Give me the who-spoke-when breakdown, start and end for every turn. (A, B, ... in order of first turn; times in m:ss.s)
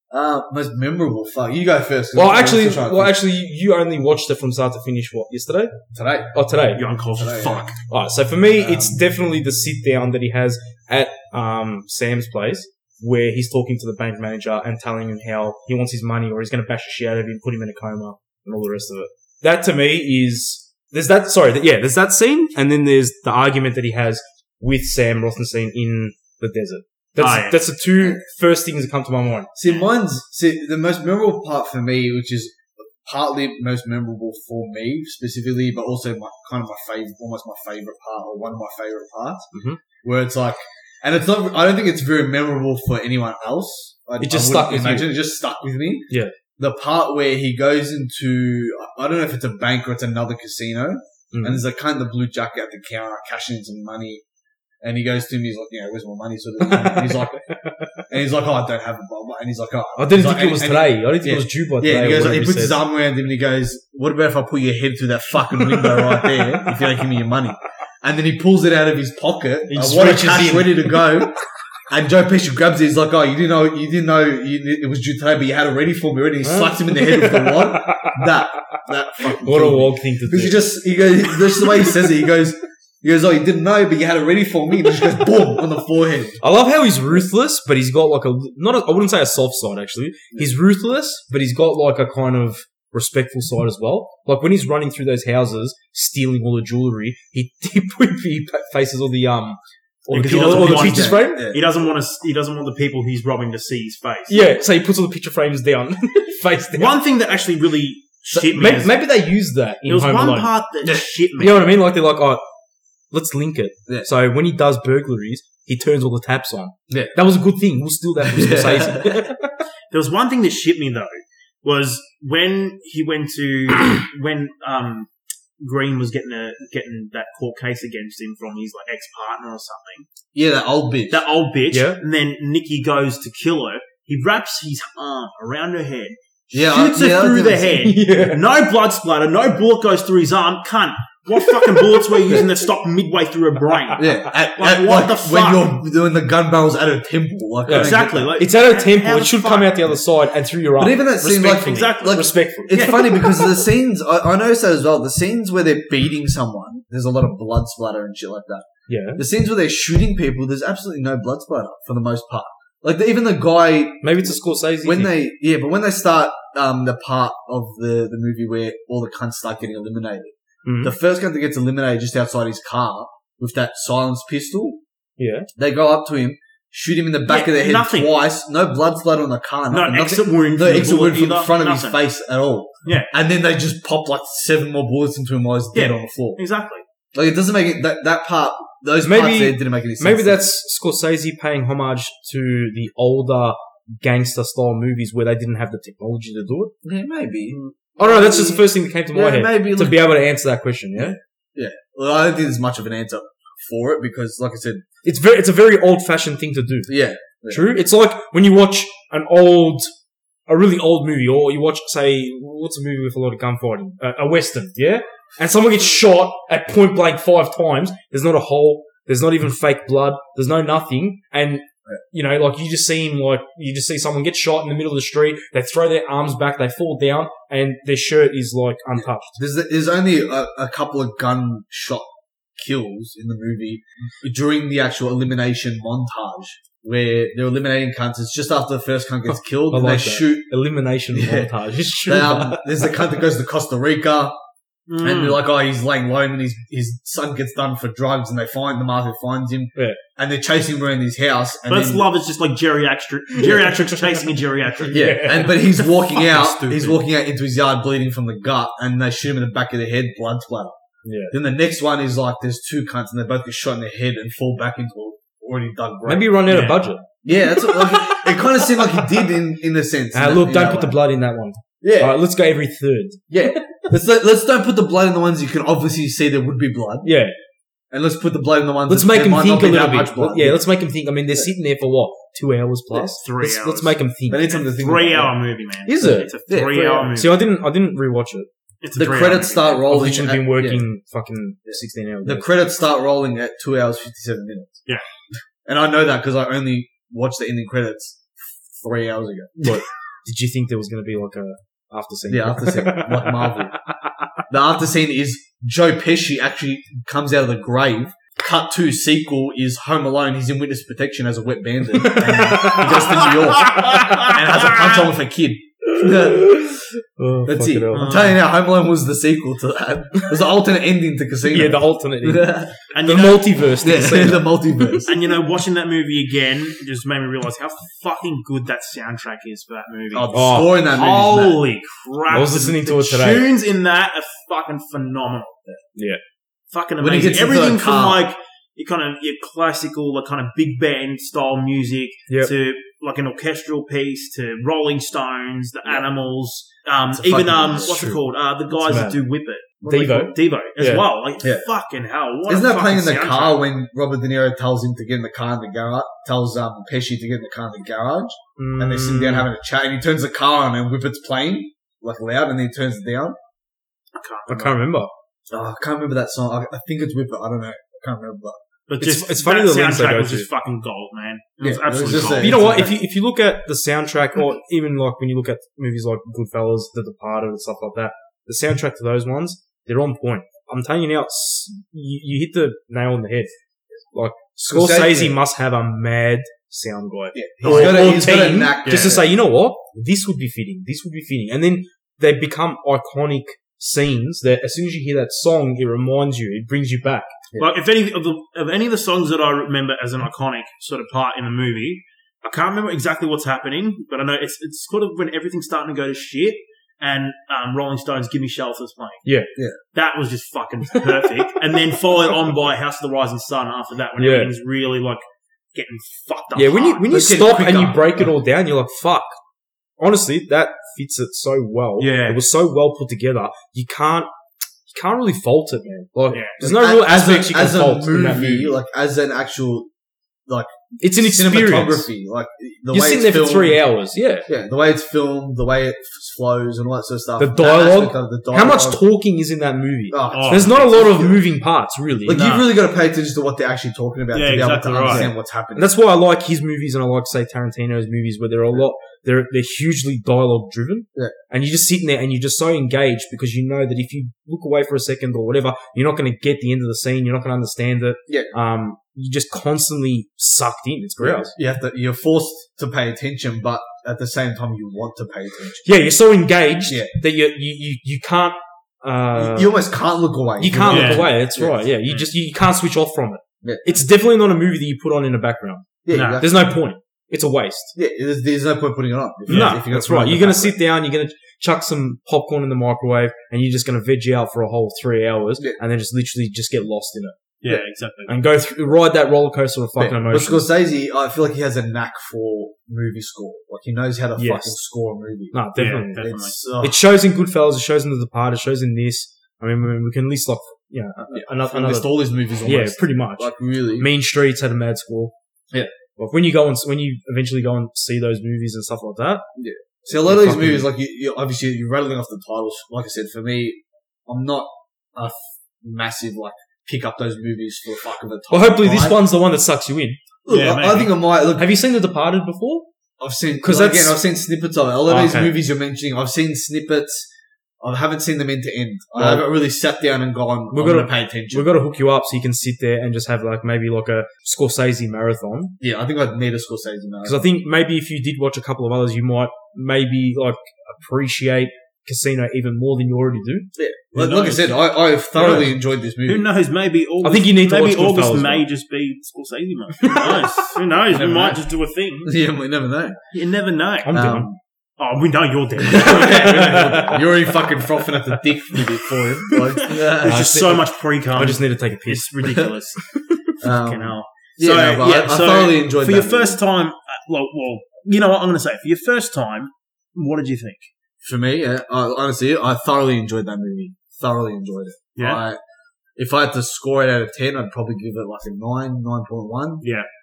0:00.1-0:03.2 A
0:02.2-0:05.8 B
0:05.9-0:06.3 A
0:06.3-0:06.8 B
0:06.8-0:07.8 C
0:07.2-0:07.7 A
0:07.9-0:29.5 B
0:08.6-0:09.0 A
0:27.2-0:27.6 C
0:29.6-0:39.5 A
0:39.5-0:39.8 B
0:40.0-0:54.2 A
0:44.2-0:45.1 B
0:51.3-0:51.6 B
0:54.8-0:57.4 A
0:56.6-0:58.0 B
0:58.1-1:11.3 A
1:00.0-1:02.8 B
1:05.5-1:06.8 B
1:09.7-1:11.1 B
1:11.9-1:26.4 A
1:16.4-1:18.3 B
1:19.3-1:20.6 B
1:21.6-1:21.9 B
1:26.4-1:41.5 B
1:40.1-1:44.5 C
1:40.2-1:41.7 A
1:44.3-1:47.0 B
1:46.8-1:49.0 C
1:48.3-1:48.6 A
1:48.5-1:50.5 B
1:49.9-1:51.8 C
1:51.4-1:52.4 B
1:53.1-1:59.6 B
1:56.9-1:57.1 A
1:58.2-1:59.3 A
1:59.9-2:05.1 C
2:05.6-2:10.1 C
2:10.3-2:11.2 A
2:11.1-2:25.8 C
2:11.7-2:12.0 B
2:16.5-2:17.8 A
2:17.8-2:18.4 B
2:24.0-2:28.4 A
2:27.7-2:32.8 B
2:27.7-2:29.9 C
2:30.8-2:54.8 A
2:31.2-2:33.6 C
2:38.9-2:39.2 B
2:44.0-2:45.2 B
2:50.6-2:50.9 B
2:55.2-2:55.5 B
2:55.6-3:06.4 A
2:57.3-2:58.2 C
2:59.7-3:02.0 C
3:05.7-3:06.8 C
3:07.1-3:10.4 A
3:09.0-3:16.7 B
3:16.8-3:20.2 A
3:18.0-3:21.2 B
3:21.0-3:24.8 A
3:25.0-3:26.9 B
3:26.9-3:27.7 A
3:27.5-3:29.9 B
3:30.5-3:49.4 B
3:49.4-4:00.5 A
3:59.3-4:02.9 B
4:01.1-4:04.4 A
4:04.9-4:05.4 C
4:05.0-4:12.1 A
4:11.7-4:17.0 C
4:14.9-4:15.6 B
4:14.9-4:20.8 A
4:21.0-4:21.3 B
4:21.3-4:26.4 A
4:26.1-4:29.2 B
4:26.5-4:26.8 C
4:27.2-4:31.0 A
4:30.1-4:33.8 B
4:31.8-4:32.2 A
4:33.3-4:37.1 A
4:37.0-4:37.3 B
4:37.9-4:40.6 A
4:38.9-4:44.6 B
4:43.1-4:47.5 C
4:44.3-4:45.3 A
4:45.9-4:46.3 B
4:46.0-4:47.2 A
4:47.1-4:48.5 B
4:48.8-4:49.8 C
4:49.0-4:50.8 A
4:49.9-4:52.5 B
4:51.7-4:54.8 A
4:55.6-4:59.8 A
4:59.6-5:04.3 B
5:02.3-5:03.8 A
5:04.5-5:16.7 A
5:12.0-5:14.3 B
5:12.8-5:14.3 C
5:16.0-5:18.1 B
5:17.5-5:22.8 A
5:17.9-5:18.4 C
5:21.5-5:25.0 B
5:22.9-5:23.5 C
5:23.8-5:25.3 A
5:25.1-5:35.6 C
5:30.1-5:31.6 A
5:30.3-5:30.8 B
5:32.3-5:33.5 B
5:36.7-5:53.6 C
5:37.0-5:38.2 A
5:47.1-5:48.1 A
5:47.8-5:48.2 B
5:48.8-5:49.2 B
5:49.9-5:51.0 B
5:52.5-6:03.4 A
5:58.6-5:59.5 B
6:04.2-6:04.8 C
6:04.5-6:05.1 B
6:05.5-6:08.6 A
6:08.9-6:12.6 C
6:09.0-6:10.5 B
6:11.6-6:13.0 A
6:12.4-6:23.5 B
6:24.1-6:37.3 B
6:24.6-6:25.4 A
6:27.3-6:29.3 A
6:27.6-6:28.3 C
6:28.8-6:29.2 C
6:37.6-6:49.2 C
6:49.9-6:57.0 C
6:50.9-6:51.5 B
6:54.2-6:54.5 B
6:56.6-6:59.3 B
6:57.1-6:58.3 A
7:00.0-7:04.3 B
7:02.0-7:02.4 C
7:04.9-7:08.8 B
7:06.3-7:06.6 C
7:06.6-7:09.9 A
7:10.5-7:13.8 A
7:11.0-7:12.1 B
7:12.9-7:14.5 B
7:14.5-7:19.0 A
7:17.4-7:22.5 B
7:20.1-7:21.4 A
7:20.3-7:20.8 C
7:22.3-7:25.9 A
7:22.3-7:22.6 C
7:24.3-7:25.3 C
7:25.1-7:41.5 B
7:41.2-7:45.9 A
7:45.8-7:49.7 B
7:46.9-7:47.1 A
7:49.3-7:51.9 A
7:50.6-7:57.9 B
7:50.9-7:51.3 C
7:53.6-7:54.0 A
7:56.1-7:56.6 A
7:56.1-7:56.5 C
7:58.0-8:00.8 A
7:59.5-7:59.8 C
7:59.5-8:07.4 B
8:07.6-8:08.3 C
8:08.3-8:10.7 B
8:10.0-8:15.6 A
8:14.4-8:14.8 B
8:15.5-8:22.1 B
8:15.8-8:16.6 C
8:16.2-8:17.0 A
8:21.3-8:24.1 A
8:22.6-8:25.3 B
8:26.2-8:29.5 B
8:29.6-8:39.2 A
8:30.1-8:30.9 B
8:38.5-8:40.2 B
8:40.5-8:41.8 A
8:40.5-8:41.1 C
8:41.6-8:42.9 B
8:43.2-8:47.3 A
8:43.6-8:44.2 B
8:45.1-8:45.6 B
8:47.8-8:51.7 A
8:49.2-8:49.5 B
8:50.7-8:55.8 B
8:55.8-8:57.5 A
8:57.2-9:03.7 B
9:03.8-9:06.5 A
9:04.2-9:04.8 C
9:05.4-9:05.7 C
9:06.2-9:12.3 C
9:07.2-9:08.6 B
9:10.0-9:10.5 B
9:11.1-9:11.6 A
9:12.2-9:13.2 A
9:13.3-9:14.3 C
9:14.0-9:14.5 B
9:14.1-9:14.6 A
9:15.0-9:16.8 C
9:15.8-9:20.6 A
9:16.0-9:17.6 B
9:19.5-9:23.0 C
9:20.2-9:22.3 B
9:23.6-9:26.6 A
9:23.6-9:30.9 C
9:31.2-9:35.6 A
9:35.2-9:35.4 C
9:36.2-9:39.9 A
9:39.8-9:40.1 C